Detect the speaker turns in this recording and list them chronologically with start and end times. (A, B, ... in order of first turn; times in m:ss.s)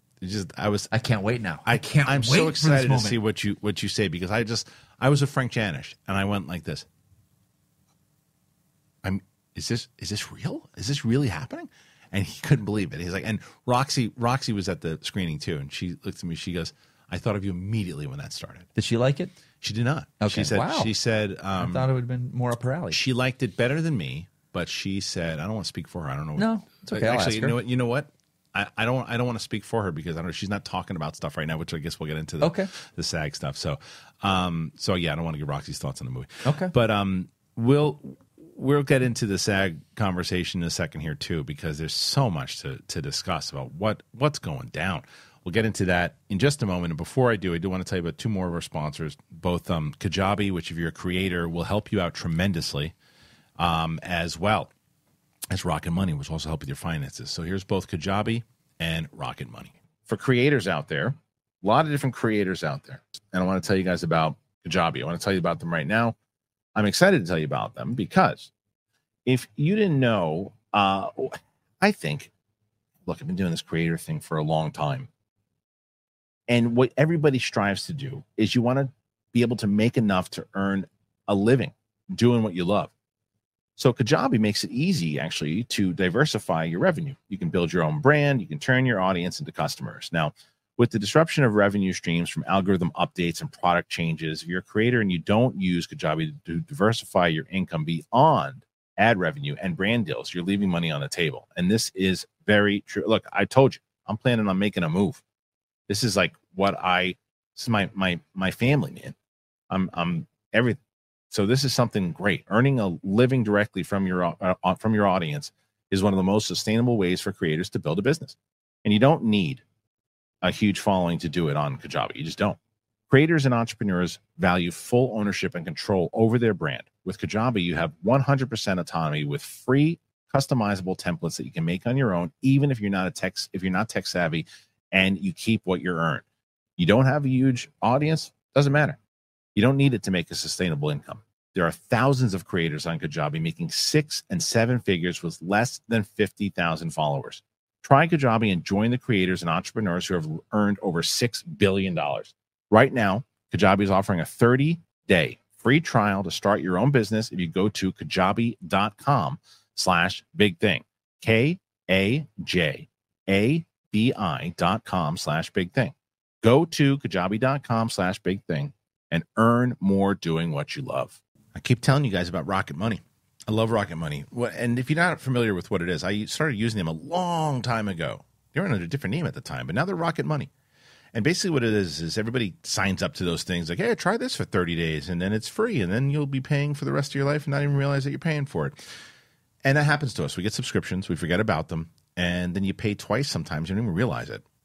0:00.2-0:00.9 A
0:00.9-0:03.2 B
0:01.6-0:06.9 A
0:09.0-0:18.7 A
0:18.8-0:19.3 B
0:19.6-0:21.9 A
0:20.2-0:20.9 B
0:21.6-0:23.0 B
0:22.9-0:52.9 A
0:26.4-0:27.6 B
0:32.4-0:32.7 B
0:36.4-0:36.7 B
0:53.6-0:54.7 A
0:55.5-1:06.2 A
1:06.8-1:08.5 A
1:09.3-1:12.3 A
1:13.1-1:15.1 A
1:16.5-1:22.9 A
1:23.8-1:45.2 A
1:45.9-1:49.2 A
1:49.7-1:50.8 A
1:51.3-1:59.6 A
2:00.4-2:02.6 A
2:03.1-2:16.2 A
2:16.8-2:19.0 A
2:19.6-3:00.5 A
3:01.1-3:08.8 A
3:09.6-3:14.4 A